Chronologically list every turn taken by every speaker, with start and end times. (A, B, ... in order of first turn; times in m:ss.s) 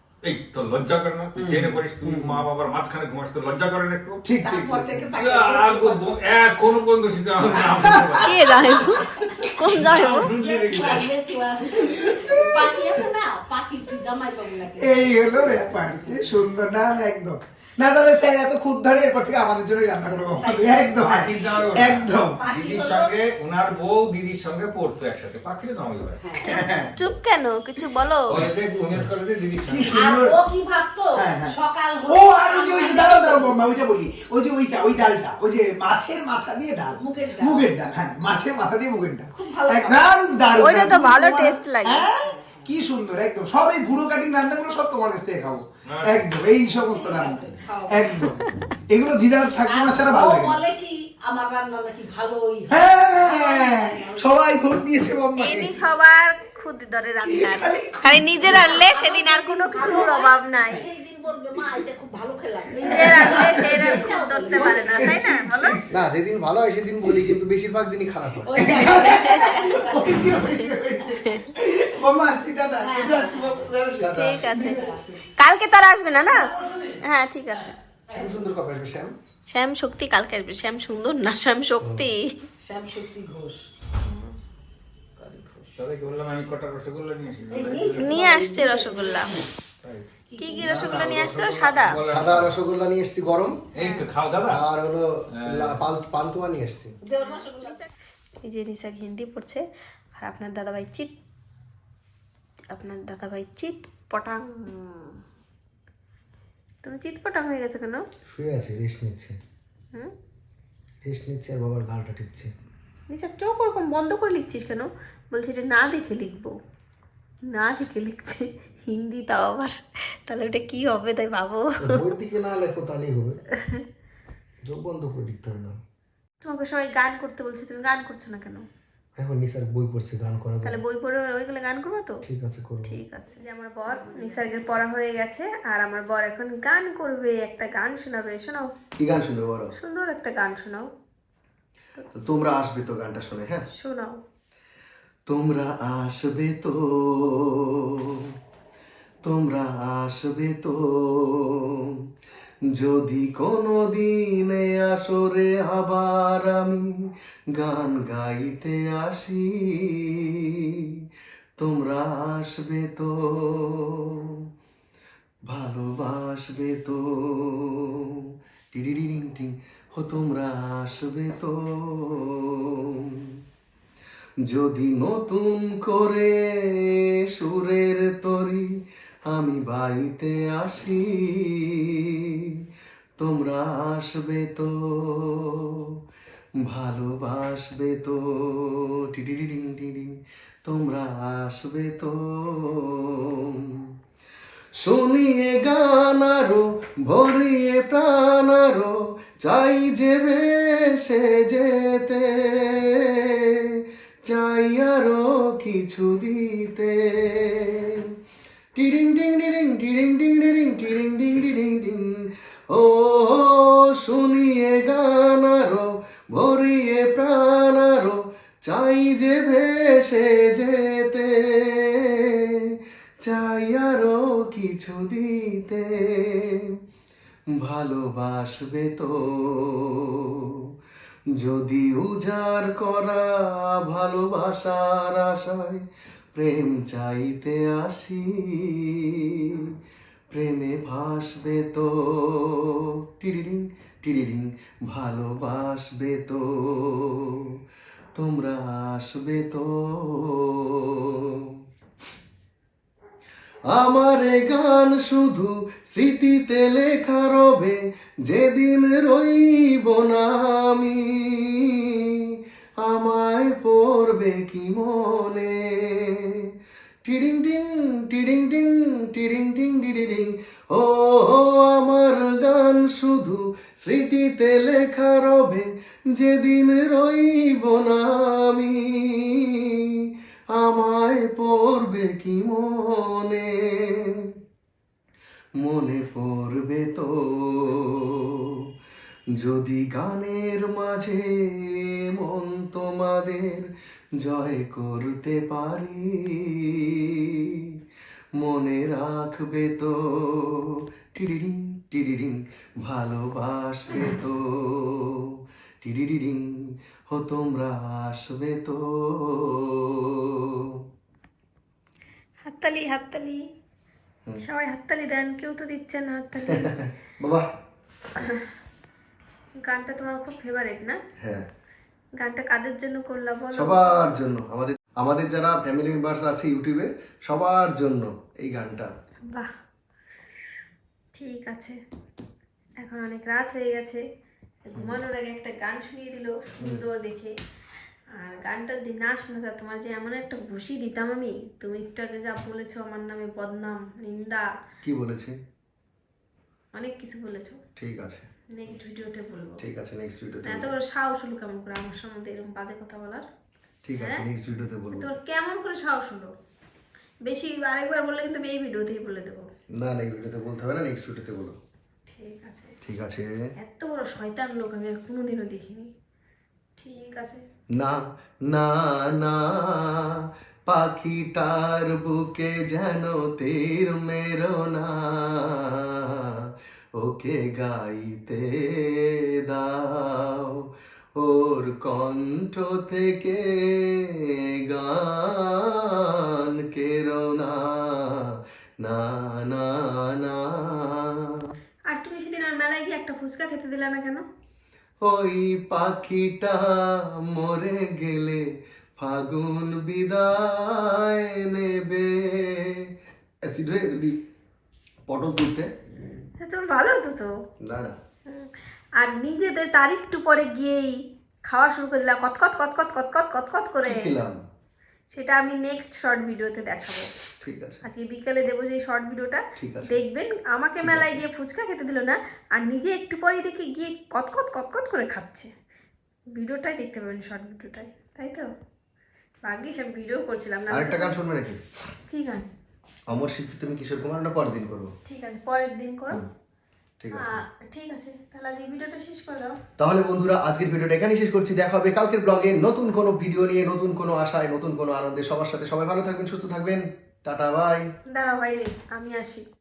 0:00.2-0:04.2 A
0:01.4-0:02.4 B
0:04.2-0:05.2 B
0:04.4-0:06.2 C
0:05.2-0:08.8 A
0:07.5-0:08.5 B
0:07.6-0:10.3 D
0:08.7-0:15.6 C
0:09.7-0:11.1 A
0:11.8-0:13.0 B
0:14.7-0:22.4 B
0:20.1-0:21.1 C
0:21.0-0:26.2 A
0:22.4-0:23.3 C
0:26.2-0:26.6 C
0:26.4-0:28.5 D
0:26.5-0:26.9 B
0:28.3-0:29.9 A
0:29.7-0:30.4 B
0:29.9-0:33.6 C
0:31.2-0:50.6 B
0:37.0-0:37.7 C
0:39.3-0:40.2 C
0:40.6-0:42.1 D
0:42.2-0:42.7 C
0:45.9-0:46.4 A
0:46.6-0:48.2 C
0:48.2-0:48.7 D
0:49.6-0:54.5 C
0:52.7-0:55.8 B
0:55.4-1:00.8 D
0:57.2-0:58.6 B
0:58.5-1:02.8 C
1:02.7-1:05.9 B
1:02.8-1:05.8 D
1:03.5-1:05.2 C
1:05.9-1:09.1 E
1:08.5-1:10.4 C
1:08.6-1:15.2 B
1:08.8-1:09.7 D
1:12.8-1:13.7 C
1:14.0-1:14.5 E
1:14.1-1:16.4 D
1:14.6-1:15.0 C
1:16.3-1:17.0 B
1:17.0-1:17.7 D
1:18.1-1:18.4 C
1:18.1-1:19.1 E
1:19.5-1:22.3 D
1:21.8-1:22.1 E
1:22.6-1:23.7 C
1:24.0-1:24.4 D
1:25.2-1:25.7 C
1:25.8-1:28.1 A
1:27.5-1:29.4 C
1:28.0-1:29.4 D
1:29.8-1:30.1 A
1:30.3-1:31.2 C
1:30.4-1:32.0 D
1:30.6-1:32.5 A
1:32.1-1:33.6 E
1:33.7-1:34.6 A
1:33.8-1:34.0 D
1:34.5-1:36.9 E
1:35.3-1:35.8 A
1:37.0-1:37.9 C
1:38.4-1:39.6 D
1:40.2-1:41.1 D
1:42.7-1:45.2 D
1:46.8-1:48.0 D
1:48.3-1:49.4 E
1:51.1-1:52.5 E
1:53.1-1:56.5 D
1:57.5-1:59.7 D
2:00.3-2:01.7 D
2:01.8-2:03.4 E
2:04.6-2:05.8 E
2:06.4-2:08.6 D
2:09.2-2:10.8 E
2:10.6-2:12.2 D
2:12.2-2:13.0 E
2:12.9-2:18.7 D
2:14.2-2:14.6 C
2:19.0-2:19.7 E
2:19.8-2:20.9 D
2:22.2-2:23.6 E
2:23.8-2:24.2 D
2:25.3-2:27.5 E
2:29.2-2:31.6 E
2:32.8-2:36.9 E
2:37.5-2:40.3 E
2:41.6-2:44.0 E
2:45.5-2:47.9 E
2:48.7-2:52.4 E
2:54.5-2:56.4 E
2:57.4-2:58.7 E
2:59.3-3:02.0 E
3:03.2-3:05.5 E
3:06.7-3:10.2 E
3:10.7-3:13.2 E
3:14.8-3:23.4 E
3:24.3-3:27.9 E
3:28.8-3:32.1 E
3:32.7-3:42.3 E
3:43.2-3:46.6 E
3:47.6-3:50.0 E
3:51.4-3:55.8 E
3:56.4-3:59.1 E
4:00.3-4:07.4 E
4:08.2-4:10.6 E
4:13.7-4:17.8 E
4:18.3-4:21.8 E
4:22.8-4:26.3 E
4:27.1-4:39.6 E
4:40.6-4:43.6 E
4:45.6-4:48.0 E
4:49.4-4:53.7 E
4:54.2-4:57.0 E
4:58.4-5:05.1 E
5:05.8-5:06.5 E
5:07.1-5:09.6 E
5:12.5-5:13.4 D
5:14.4-5:16.7 D
5:16.6-5:17.4 E
5:19.6-5:21.0 D
5:22.2-5:23.8 D
5:23.6-5:28.9 E
5:31.2-5:31.8 D
5:32.8-5:34.0 D
5:34.7-5:37.3 D
5:38.2-5:44.4 D
5:44.8-5:45.4 E
5:46.7-5:47.6 D
5:47.8-5:48.2 E
5:48.5-5:49.6 D
5:49.6-5:50.7 E
5:50.5-5:53.2 D
5:53.8-5:55.1 E
5:54.0-5:54.2 D
5:54.9-5:56.3 D
5:57.2-5:59.4 D
5:59.8-6:01.6 E
6:02.1-6:02.7 D
6:02.8-6:03.3 E
6:03.6-6:05.9 D
6:06.8-6:07.4 D
6:08.5-6:09.8 E
6:10.7-6:15.6 E
6:17.0-6:20.5 E
6:21.2-6:23.9 E
6:24.7-6:25.8 E
6:26.6-6:28.2 E
6:28.8-6:30.5 E
6:31.9-6:34.2 D
6:35.1-6:36.8 E
6:37.4-6:38.4 E
6:39.0-6:42.6 E
6:43.5-6:44.2 E
6:45.1-6:45.7 E
6:46.4-6:47.3 D
6:47.6-6:48.0 E
6:49.0-6:51.0 D
6:51.5-6:54.1 D
6:53.9-6:54.4 E
6:55.1-6:57.1 D
6:57.4-6:57.8 E
6:57.8-7:05.5 D
6:59.6-6:59.9 E
7:00.8-7:01.2 E
7:06.4-7:08.5 D
7:09.4-7:11.1 D
7:10.7-7:11.6 E
7:12.1-7:12.5 D
7:13.1-7:14.9 E
7:15.1-7:16.2 D
7:17.0-7:17.4 E
7:17.2-7:19.6 D
7:19.8-7:27.8 E
7:28.1-7:29.4 D